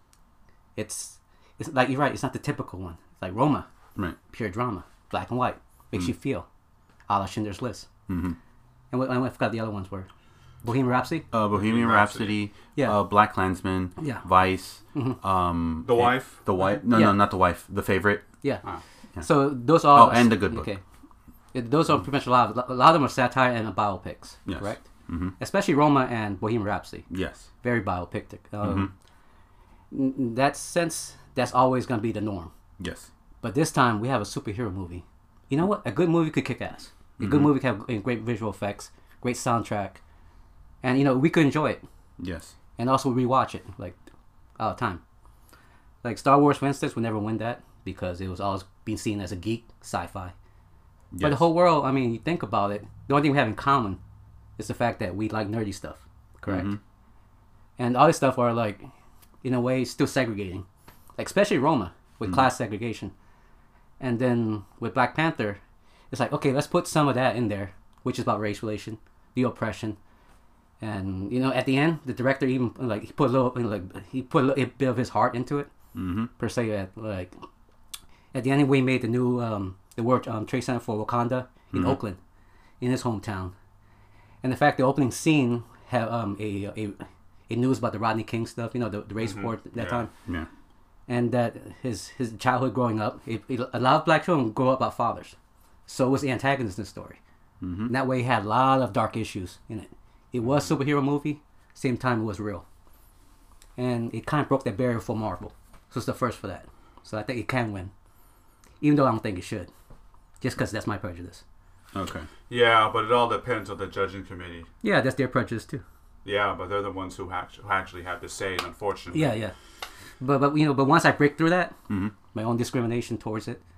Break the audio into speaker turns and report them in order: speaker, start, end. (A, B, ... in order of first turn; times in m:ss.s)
0:00.8-0:03.7 A
0:04.3-0:06.4 A
0:07.1-0:07.9 A
0:08.1-0:08.4 B
0:08.9-0:10.1 A
0:10.6-0:11.3 A
0:11.3-0:18.2 B
0:11.5-0:12.4 C
0:14.0-0:14.2 A
0:15.8-0:16.8 C
0:16.9-0:17.2 A
0:19.2-0:20.8 A
0:19.8-0:20.7 B
0:21.5-0:24.8 A
0:24.5-0:25.3 B
0:25.4-0:27.1 A
0:27.1-0:27.5 B
0:27.6-0:28.9 A
0:28.6-0:28.9 B
0:29.9-0:32.5 A
0:32.8-0:33.1 B
0:33.4-0:40.0 A
0:37.2-0:37.5 B
0:40.8-0:41.8 A
0:42.2-0:42.5 B
0:42.8-0:44.0 A
0:44.6-0:45.0 A
0:46.0-0:50.3 A
0:51.1-0:51.5 B
0:51.2-0:54.0 A
0:54.6-0:56.7 A
0:56.4-0:56.8 B
0:57.8-0:58.9 A
0:59.4-1:00.6 A
1:01.2-1:03.1 A
1:04.0-1:05.6 A
1:06.1-1:10.0 A
1:10.8-1:15.7 A
1:15.9-1:16.3 B
1:16.4-1:17.4 A
1:18.3-1:22.2 A
1:21.7-1:22.0 B
1:22.8-1:23.5 A
1:24.4-1:30.1 A
1:29.2-1:30.0 C
1:31.1-1:35.4 A
1:35.9-1:37.2 A
1:37.6-1:37.9 B
1:37.9-1:42.6 A
1:43.8-1:47.9 A
1:48.8-1:49.7 A
1:50.4-1:51.4 A
1:51.9-1:52.3 B
1:52.5-1:54.7 C
1:54.8-1:55.8 A
1:56.2-1:59.4 C
1:59.1-1:59.5 A
2:00.2-2:01.8 A
2:01.9-2:02.1 B
2:02.3-2:03.6 A